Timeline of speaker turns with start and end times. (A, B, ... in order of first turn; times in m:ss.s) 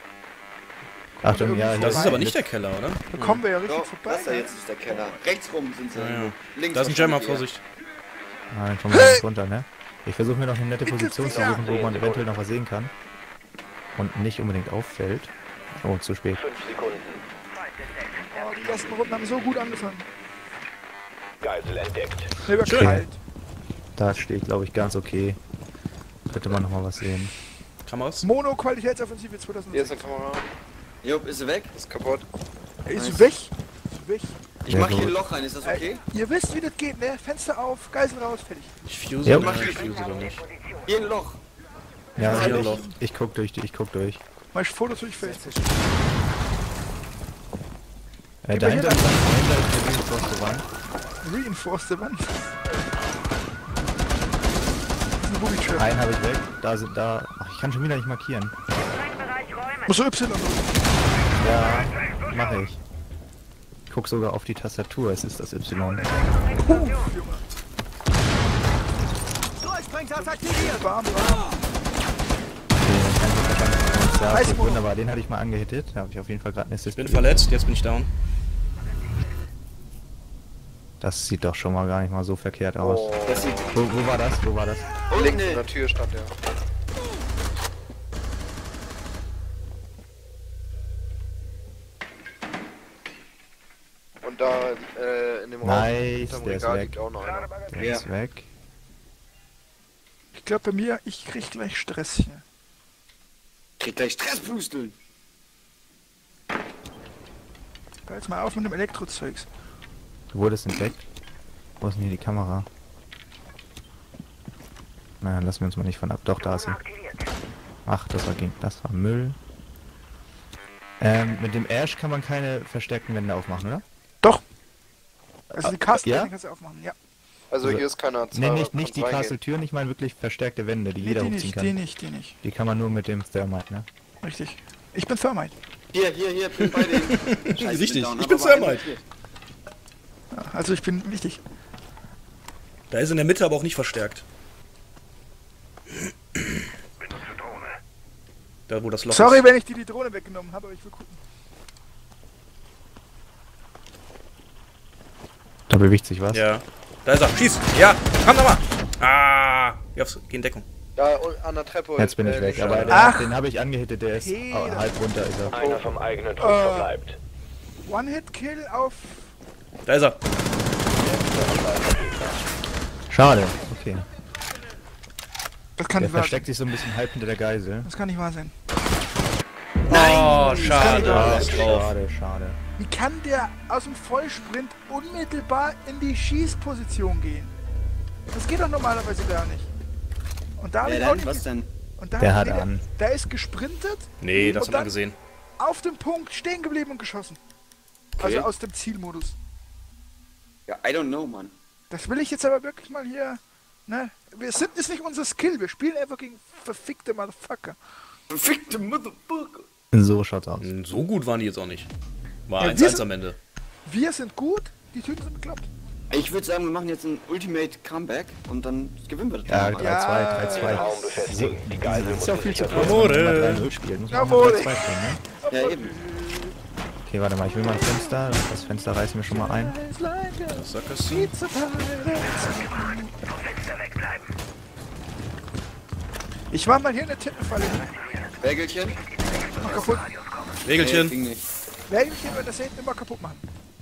0:01.2-0:02.3 A
0:01.2-0:02.4 B
0:01.8-0:03.4 C
0:03.1-0:04.6 A
0:03.6-0:07.5 D
0:05.9-0:07.6 C
0:08.5-0:12.9 B
0:10.8-0:11.6 A
0:11.3-0:12.4 E
0:14.0-0:16.4 B
0:16.3-0:17.2 E
0:18.2-0:20.1 A
0:21.4-0:22.3 E
0:22.4-0:23.2 A
0:22.6-0:22.9 C
0:22.7-0:23.1 B
0:24.0-0:25.4 B
0:26.3-0:27.3 B
0:27.9-0:28.3 C
0:28.2-0:30.1 A
0:29.7-0:30.5 F
0:31.0-0:31.8 D
0:31.7-0:32.3 F
0:32.9-0:34.4 A
0:33.0-0:33.3 D
0:34.7-0:36.0 D
0:34.7-0:35.2 B
0:35.6-0:38.8 A
0:38.9-0:40.4 C
0:39.2-0:39.5 B
0:39.3-0:40.3 D
0:40.9-0:41.4 D
0:42.2-0:43.0 A
0:42.2-0:44.2 B
0:42.2-0:42.8 D
0:42.2-0:42.8 C
0:44.5-0:45.6 A
0:48.4-0:50.7 B
0:48.5-0:49.3 A
0:51.2-0:52.4 A
0:55.2-0:55.9 A
0:55.8-0:58.5 B
0:59.8-1:00.9 A
1:01.4-1:02.8 B
1:03.9-1:06.1 B
1:06.6-1:07.4 A
1:10.0-1:11.6 A
1:12.8-1:17.4 B
1:14.3-1:14.9 A
1:17.0-1:18.1 C
1:21.0-1:23.2 B
1:22.8-1:23.5 E
1:23.2-1:23.8 D
1:23.7-1:24.9 B
1:25.1-1:25.7 D
1:25.1-1:26.3 F
1:34.2-1:37.7 F
1:35.6-1:37.0 B
1:37.7-1:38.5 B
1:37.8-1:38.0 D
1:40.4-1:42.4 A
1:43.8-1:45.0 D
1:48.1-1:49.5 A
1:50.3-1:51.1 B
1:51.8-1:52.7 B
1:55.2-1:56.8 B
1:57.9-1:59.4 B
2:01.0-2:03.8 B
2:05.5-2:06.3 B
2:05.5-2:07.0 A
2:07.5-2:09.4 F
2:07.6-2:11.8 B
2:11.0-2:12.4 A
2:12.4-2:13.9 B
2:14.2-2:15.5 A
2:15.9-2:19.0 D
2:16.6-2:18.9 C
2:20.3-2:21.4 A
2:22.9-2:24.2 C
2:26.0-2:26.6 C
2:28.7-2:29.5 C
2:29.1-2:31.2 A
2:35.7-2:36.5 B
2:36.3-2:40.6 C
2:41.0-2:43.0 F
2:42.0-2:45.6 B
2:42.6-2:43.0 C
2:42.9-2:43.4 A
2:44.1-2:45.0 A
2:45.5-2:47.2 E
2:45.5-2:45.9 F
2:46.4-2:47.0 A
2:47.8-2:49.3 A
2:49.8-2:50.2 C
2:51.0-2:52.4 E
2:53.1-2:54.0 B
2:55.8-2:56.5 A
2:56.0-2:57.9 B
2:57.8-2:58.5 A
2:59.9-3:01.9 C
2:59.9-3:01.6 A
2:59.9-3:01.4 D
3:00.8-3:01.7 E
3:00.9-3:02.6 B
3:02.8-3:07.5 A
3:08.3-3:09.7 A
3:10.6-3:11.5 A
3:10.8-3:11.7 D
3:12.0-3:14.9 A
3:12.2-3:12.9 B
3:14.2-3:15.2 C
3:15.6-3:17.4 A
3:18.2-3:19.4 A
3:18.2-3:18.5 D
3:20.7-3:21.5 D
3:21.9-3:27.8 A
3:28.3-3:29.7 D
3:29.9-3:30.7 B
3:30.6-3:31.9 C
3:32.5-3:33.4 C
3:32.6-3:33.1 A
3:33.9-3:35.7 A
3:36.1-3:39.9 D
3:39.5-3:45.2 B
3:39.8-3:41.1 A
3:40.5-3:43.0 E
3:42.7-3:43.7 C
3:44.1-3:44.9 A
3:45.4-3:46.5 A
3:45.5-3:46.0 D
3:47.1-3:49.8 B
3:47.6-3:48.2 A
3:49.3-3:53.1 A
3:50.5-3:51.3 C
3:56.5-3:58.0 A
3:58.4-3:59.0 D
3:59.5-4:00.1 A
4:00.6-4:01.2 C
4:00.7-4:01.4 D
4:01.9-4:03.4 A